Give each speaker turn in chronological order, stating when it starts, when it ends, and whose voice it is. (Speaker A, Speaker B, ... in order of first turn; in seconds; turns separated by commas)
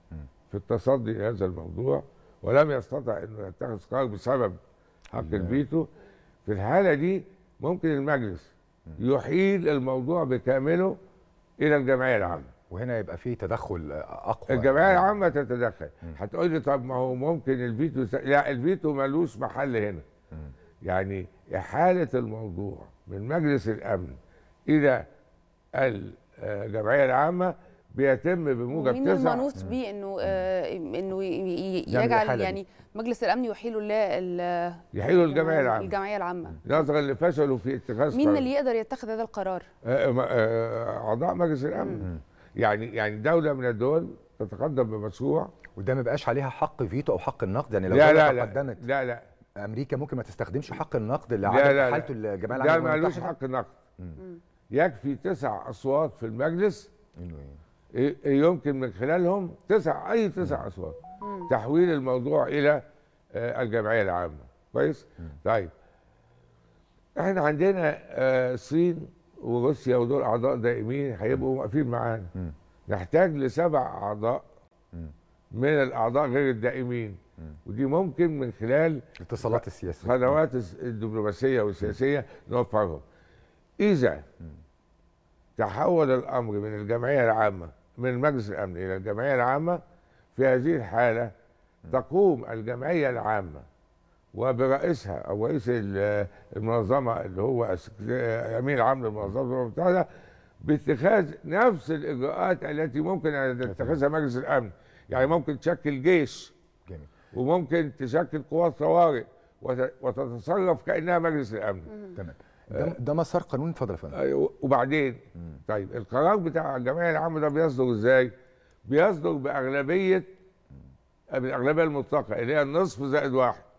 Speaker A: 0.5-4.6, Speaker A: 5.1-5.9, Speaker B: 5.2-5.6, Speaker A: 6.5-11.0, Speaker A: 11.6-12.5, Speaker B: 12.3-15.1, Speaker A: 14.5-20.1, Speaker A: 20.9-24.2, Speaker A: 24.7-25.1, Speaker A: 25.8-29.6, Speaker C: 28.7-36.7, Speaker B: 31.9-32.6, Speaker A: 34.9-35.9, Speaker A: 36.6-38.5, Speaker C: 38.1-39.7, Speaker A: 39.8-45.5, Speaker C: 41.7-42.1, Speaker B: 45.8-48.8, Speaker A: 47.9-49.2, Speaker B: 49.6-53.3, Speaker A: 51.5-53.8, Speaker A: 54.7-56.9, Speaker B: 57.2-57.6, Speaker A: 58.0-62.8, Speaker C: 61.2-61.5, Speaker A: 63.3-65.7, Speaker A: 67.2-72.3, Speaker A: 72.9-74.4, Speaker A: 75.5-83.0, Speaker B: 79.2-80.4, Speaker A: 83.8-84.2, Speaker A: 85.6-89.8, Speaker A: 90.3-91.3, Speaker A: 91.9-93.7, Speaker A: 94.3-100.1, Speaker A: 100.6-106.5, Speaker B: 103.7-104.0, Speaker A: 107.3-112.0, Speaker B: 112.2-114.2, Speaker A: 114.1-118.3, Speaker A: 118.9-120.3, Speaker A: 121.3-123.7